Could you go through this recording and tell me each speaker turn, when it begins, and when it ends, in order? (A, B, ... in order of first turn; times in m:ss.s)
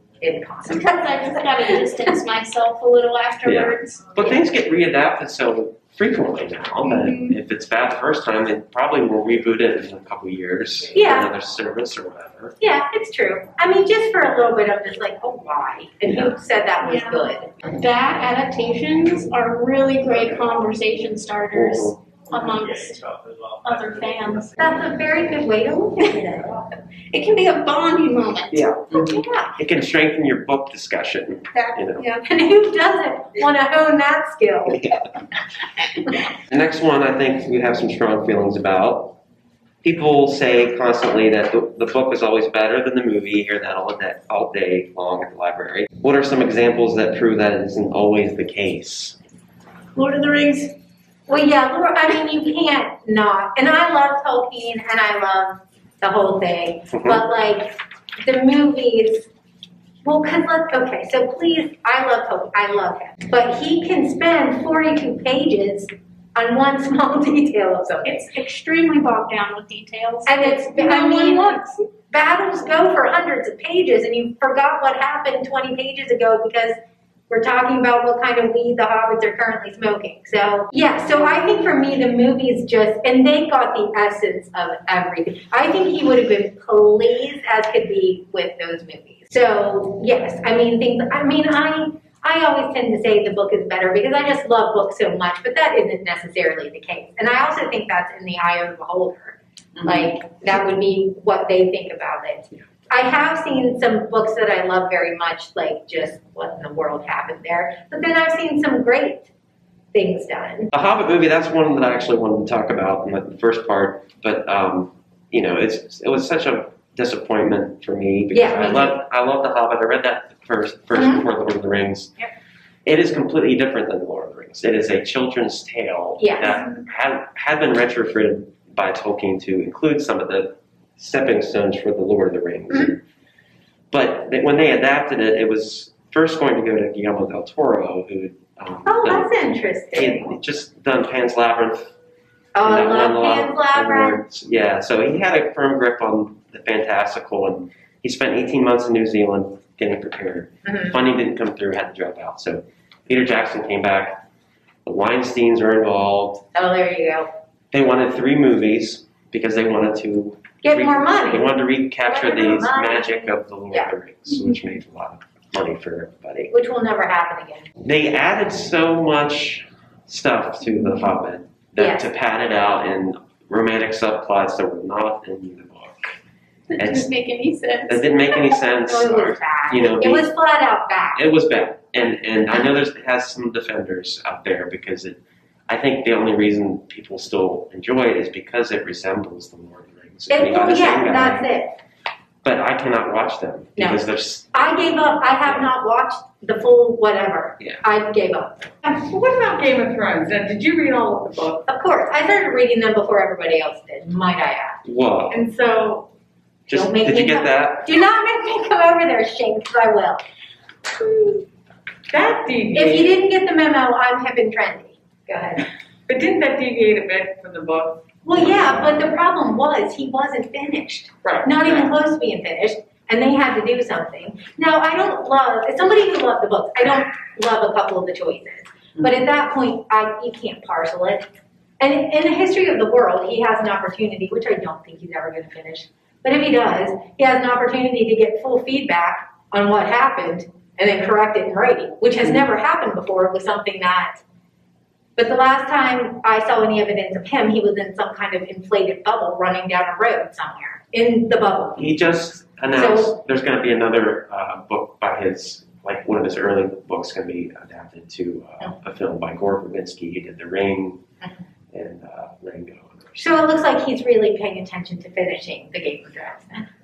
0:00.2-0:01.8 A
0:00.6-0:04.1 B
0:03.4-0:12.5 C
0:06.8-0:07.4 B
0:10.9-0:11.3 A
0:12.6-0:17.6 A
0:16.0-0:16.3 C
0:16.8-0:23.0 B
0:21.5-0:22.0 C
0:23.6-0:24.7 B
0:24.6-0:26.6 A
0:27.1-0:28.7 B
0:28.5-0:29.0 C
0:28.9-0:29.5 A
0:29.6-0:32.0 C
0:31.5-0:32.2 B
0:32.2-0:34.8 A
0:36.5-0:39.2 C
0:39.8-0:49.2 C
0:49.9-0:50.7 B
0:51.3-0:59.3 A
0:56.9-0:57.2 C
1:00.0-1:08.3 A
1:08.0-1:11.8 B
1:10.2-1:16.8 A
1:17.3-1:49.3 A
1:39.8-1:40.1 D
1:49.9-1:50.7 A
1:50.7-2:02.1 C
1:58.3-1:59.0 A
2:00.9-2:01.2 A
2:02.8-2:13.0 C
2:06.2-2:06.6 A
2:13.9-2:19.3 C
2:18.8-2:20.4 A
2:19.9-2:21.9 C
2:22.5-2:24.2 A
2:22.6-2:34.2 C
2:30.6-2:30.9 A
2:34.8-2:36.4 C
2:36.5-2:37.3 A
2:37.7-2:46.5 C
2:40.6-2:43.9 A
2:46.5-2:47.7 A
2:47.8-2:56.1 C
2:51.8-2:52.1 A
2:56.7-2:58.1 B
2:56.8-2:57.1 C
2:57.9-3:00.2 C
2:58.6-3:01.2 A
3:01.2-3:11.5 C
3:10.3-3:11.8 A
3:12.4-3:14.8 C
3:13.8-3:18.7 A
3:18.8-3:21.6 D
3:21.7-3:24.8 A
3:24.8-3:25.4 C
3:25.3-3:26.1 D
3:26.7-3:28.0 C
3:26.7-3:30.2 A
3:32.1-3:33.1 D
3:32.7-3:35.6 A
3:36.1-3:38.0 D
3:38.2-3:51.3 A
3:38.4-3:38.9 C
3:41.2-3:41.9 D
3:51.8-4:04.2 A
4:05.2-4:11.9 A
4:11.8-4:21.0 C
4:12.7-4:13.1 A
4:21.7-4:23.4 C
4:23.2-4:26.7 A